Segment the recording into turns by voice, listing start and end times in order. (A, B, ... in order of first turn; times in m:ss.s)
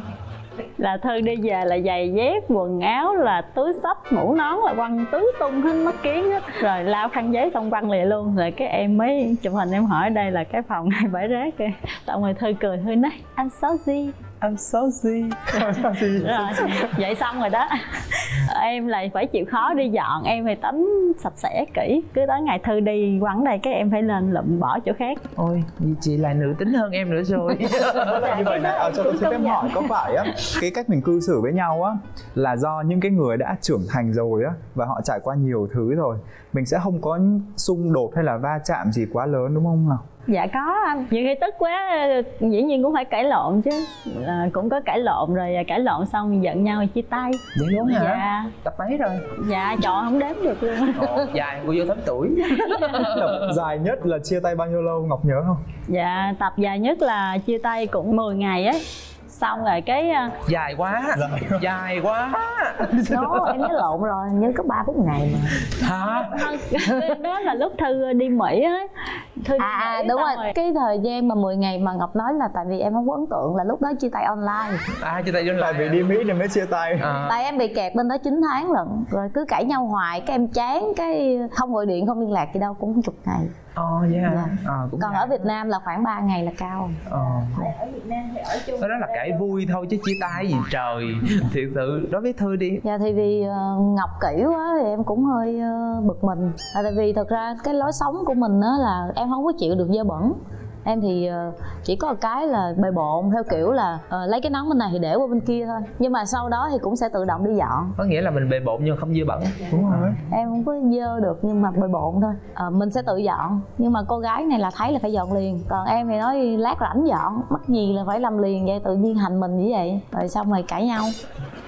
0:00.8-0:14.2 A
0:14.4-0:17.0 B
0:15.6-0:25.2 A
0:25.4-0:28.7 C
0:27.7-0:29.9 A
0:28.2-0:40.0 B
0:40.3-0:48.5 A
0:47.6-0:49.2 C
0:49.4-0:51.4 A
0:50.9-0:53.5 C
0:52.5-0:53.1 A
0:53.1-0:55.6 B
0:55.9-1:00.4 A
1:00.5-1:03.7 C
1:01.1-1:01.6 B
1:03.1-1:05.6 D
1:05.6-1:07.2 C
1:05.8-1:10.5 A
1:09.6-1:14.8 D
1:15.0-1:16.1 C
1:15.6-1:17.2 B
1:17.0-1:17.5 C
1:17.2-1:23.5 D
1:23.8-1:25.4 C
1:24.2-1:27.0 D
1:27.1-1:27.7 C
1:27.1-1:29.6 A
1:28.8-1:32.8 C
1:32.8-1:48.0 D
1:48.0-1:50.2 C
1:50.3-2:01.1 D